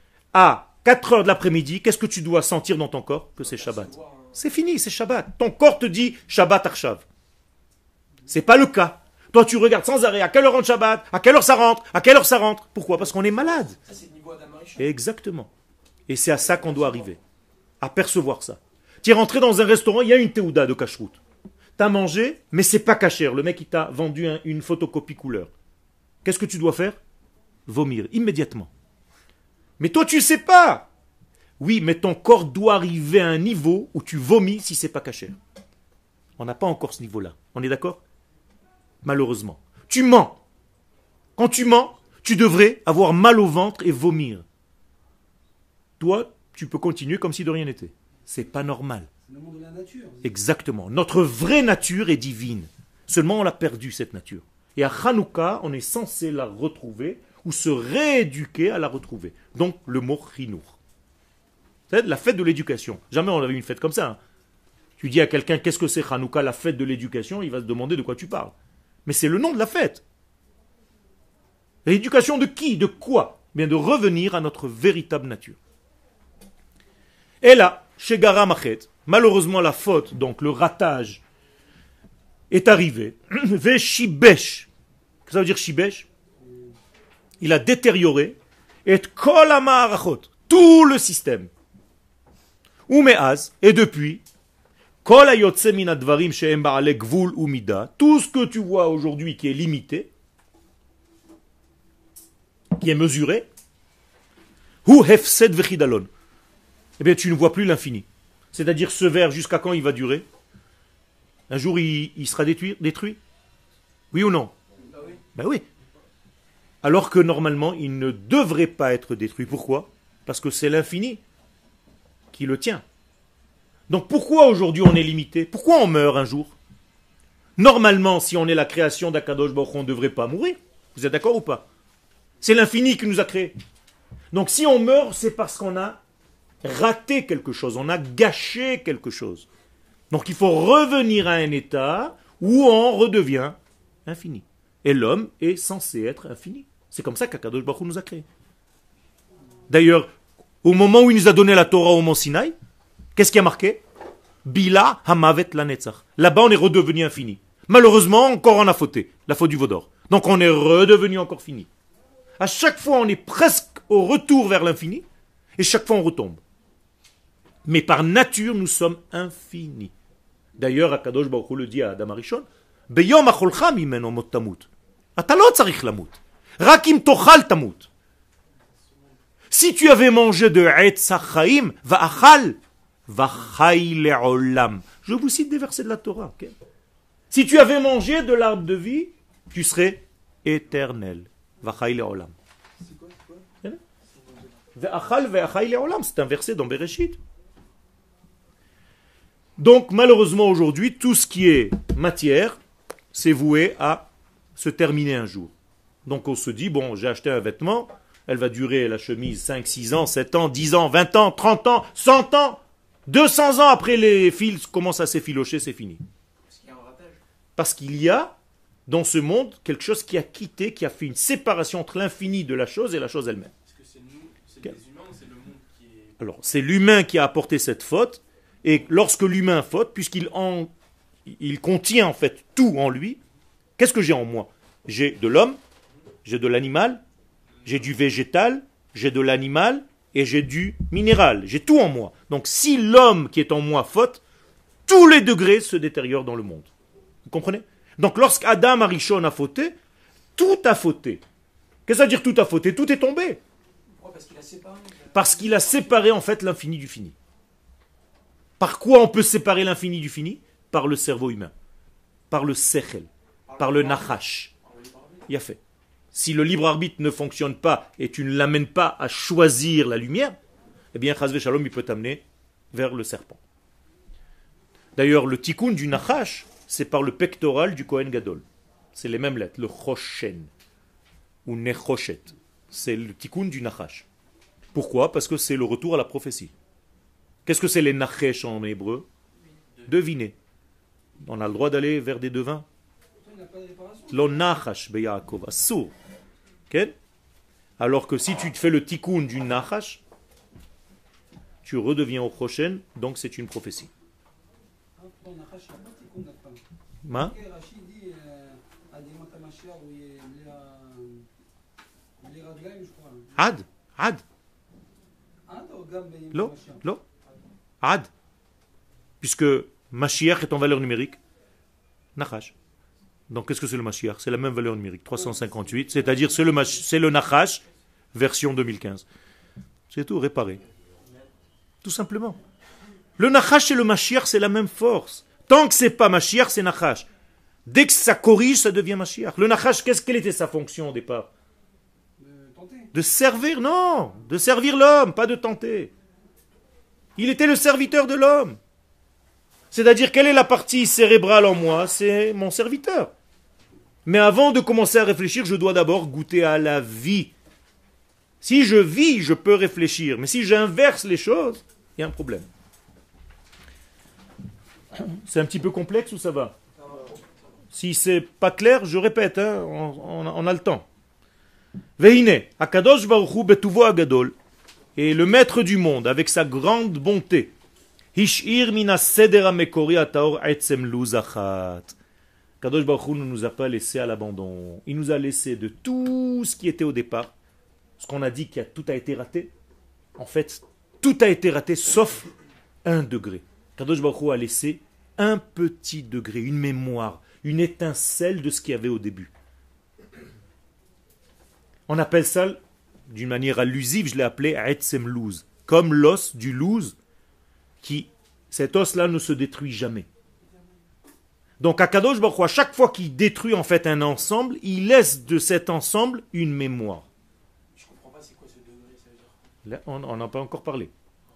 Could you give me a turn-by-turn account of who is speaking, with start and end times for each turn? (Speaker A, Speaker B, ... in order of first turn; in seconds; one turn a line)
Speaker A: 0.3-7.0
Speaker B: 3.4-4.4
Speaker A: 8.3-13.8
Speaker B: 13.1-14.9
Speaker A: 14.8-15.5
Speaker A: 16.1-17.2
Speaker B: 16.6-17.1
Speaker A: 17.8-21.2
Speaker A: 21.8-25.5
Speaker A: 26.2-27.0
Speaker A: 27.7-28.7
Speaker A: 29.8-30.9
Speaker A: 31.6-35.4
Speaker A: 36.4-38.0
Speaker A: 39.0-40.4
Speaker A: 41.4-44.4
Speaker A: 46.0-49.1
Speaker C: 49.3-50.3
Speaker A: 50.2-60.8
Speaker A: 61.9-64.2
Speaker A: 65.0-68.5
Speaker A: 69.0-70.0
Speaker A: 71.8-75.6
Speaker A: 77.4-81.2
Speaker A: 82.5-84.7
Speaker A: 85.3-86.1
Speaker A: 87.4-91.5
Speaker A: 92.9-94.2
Speaker A: 95.0-100.1
Speaker A: 102.8-103.5
Speaker A: 104.8-106.1
Speaker A: 107.0-110.3
Speaker A: 111.5-113.2
Speaker A: 114.1-114.5
Speaker B: 114.9-115.2
Speaker A: 115.3-115.6
Speaker A: 116.8-121.2
Speaker A: 122.3-122.8
Speaker A: 123.9-126.6
Speaker A: 127.6-131.7
Speaker A: 132.4-133.6
Speaker A: 134.3-136.0
Speaker A: 136.6-139.5
Speaker A: 140.1-148.2
Speaker A: 149.7-150.1
Speaker A: 150.6-152.6
Speaker A: 153.2-153.8
Speaker A: 154.4-161.7
Speaker A: 162.4-165.1
Speaker A: 165.6-166.4
Speaker A: 167.7-169.9
Speaker A: 170.6-177.9
Speaker A: 179.5-186.5
Speaker A: 187.3-192.3
Speaker B: 192.8-193.4
Speaker B: 194.1-194.5
Speaker A: 194.8-197.2
Speaker A: 199.6-202.6
Speaker A: 203.1-205.5
Speaker A: 206.1-216.0
Speaker B: 216.5-217.2
Speaker A: 217.6-218.4
Speaker A: 218.9-223.5
Speaker B: 223.7-226.2
Speaker A: 226.2-230.7
Speaker A: 231.3-233.2
Speaker A: 233.8-235.6
Speaker A: 236.2-237.0
Speaker A: 237.7-244.2
Speaker A: 244.9-246.7
Speaker A: 247.3-249.8
Speaker A: 250.4-251.2
Speaker A: 251.9-253.4
Speaker B: 254.0-255.9
Speaker A: 255.1-257.1
Speaker A: 258.6-261.5
Speaker A: 262.3-264.5
Speaker B: 263.5-265.3
Speaker A: 265.3-265.6
Speaker A: 266.1-270.4
Speaker A: 270.9-273.4
Speaker A: 275.0-278.4
Speaker A: 278.9-280.5
Speaker A: 281.4-284.1
Speaker A: 284.7-286.5
Speaker A: 287.5-289.1
Speaker B: 289.6-289.9
Speaker A: 289.9-290.4
Speaker A: 291.2-292.6
Speaker C: 293.2-294.4
Speaker A: 294.1-295.9
Speaker A: 297.8-300.0
Speaker A: 301.6-303.9
Speaker C: 305.0-306.6
Speaker A: 307.1-307.4
Speaker C: 307.1-311.3
Speaker C: 312.2-313.3
Speaker A: 313.4-314.2
Speaker C: 315.5-316.8
Speaker A: 316.3-317.0
Speaker A: 317.8-318.1
Speaker A: 319.2-321.2
Speaker A: 322.2-322.5
Speaker A: 323.3-329.1
Speaker C: 325.3-326.0
Speaker A: 329.9-330.6
Speaker A: 331.8-332.4
Speaker A: 333.2-337.1
Speaker A: 337.7-341.3
Speaker C: 342.2-342.9
Speaker A: 342.9-345.9
Speaker A: 347.2-348.6
Speaker A: 349.7-353.1
Speaker A: 354.1-357.3
Speaker A: 358.4-362.5
Speaker A: 364.9-366.6
Speaker A: 367.7-370.9
Speaker A: 372.0-374.4
Speaker A: 375.0-377.5
Speaker A: 378.1-381.9
Speaker A: 382.6-387.3
Speaker A: 388.0-389.5
Speaker A: 390.2-392.3
Speaker A: 392.9-399.3
Speaker A: 401.9-407.0
Speaker A: 407.8-410.1
Speaker A: 411.6-417.1
Speaker B: 417.7-419.4
Speaker A: 419.6-420.9